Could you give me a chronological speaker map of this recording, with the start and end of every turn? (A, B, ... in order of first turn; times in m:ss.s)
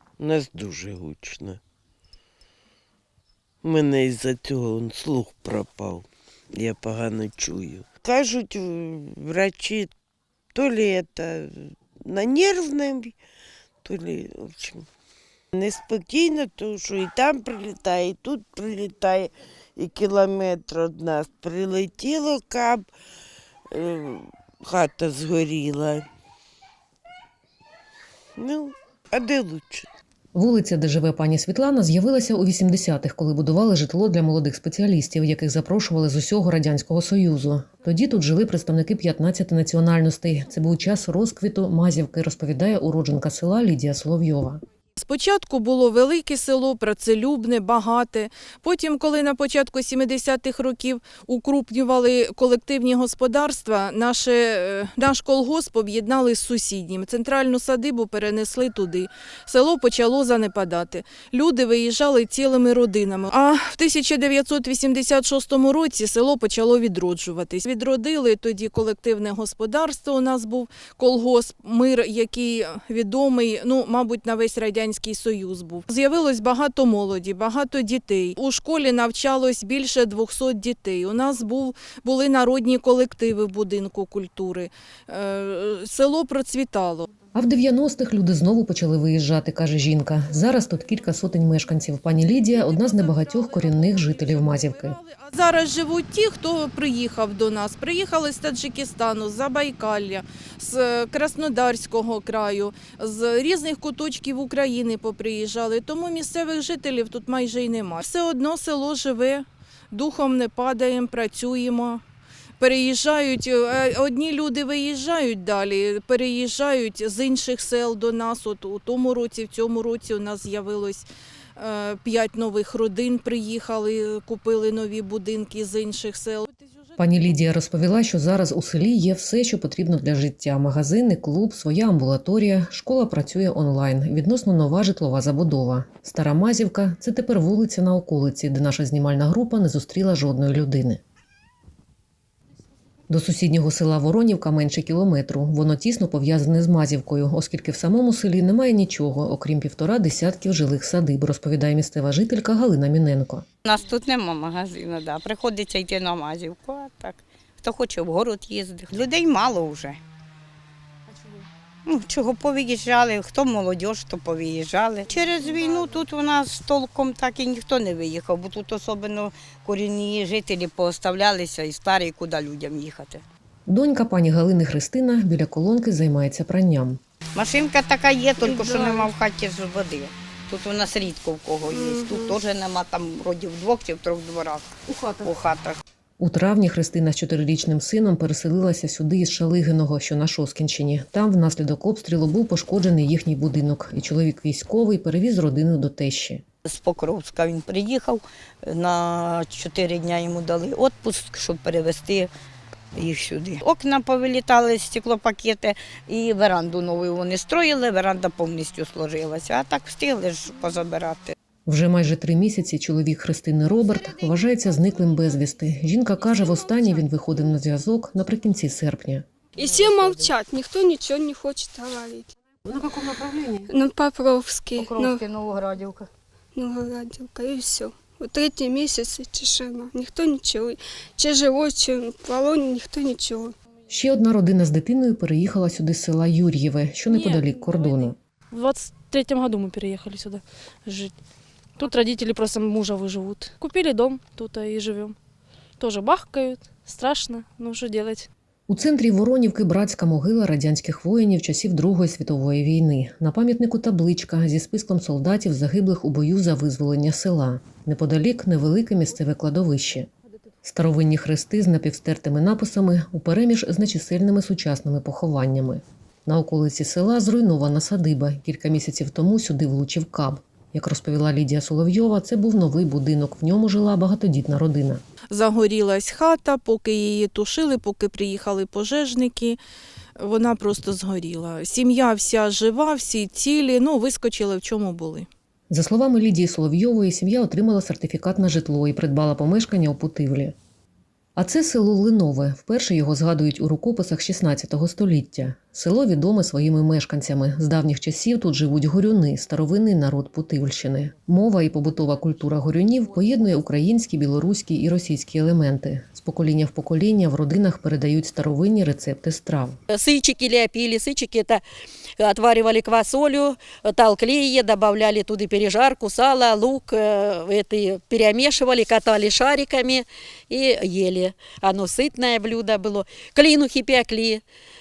0:00.2-0:01.6 A
0:03.6-0:06.1 A
0:06.6-0:09.9 A
0:10.5-0:13.2 A
0:13.8-0:14.9 A
0:15.5-0:22.9 A
0:23.7-0:26.1 A
0:28.4-0:29.9 A
0:30.4-0:44.6 B
0:45.0-1:27.1 C
1:27.4-1:35.0 B
1:32.5-1:52.0 C
1:52.6-2:01.0 C
2:01.6-2:07.0 C
2:07.0-2:21.0 B
2:23.1-2:33.4 B
2:33.6-2:40.0 D
2:41.9-2:53.2 D
2:53.7-2:57.0 B
2:57.4-3:05.8 D
2:58.5-2:59.1 E
3:01.7-3:02.4 E
3:06.2-3:16.4 B
3:16.6-3:22.3 D
3:23.0-3:31.3 D
3:31.7-3:39.3 B
3:39.6-3:42.3 E
3:42.9-3:45.4 E
3:46.5-3:53.6 E
3:53.9-3:58.2 B
3:57.1-4:01.1 F
4:01.8-4:05.2 F
4:05.8-4:08.3 F
4:08.7-4:20.1 B
4:20.6-4:35.0 B
4:35.3-4:39.6 C
4:40.2-4:45.3 C
4:45.7-4:50.6 B
4:51.4-5:09.8 B
5:09.9-5:11.6 G
5:12.2-5:24.4 G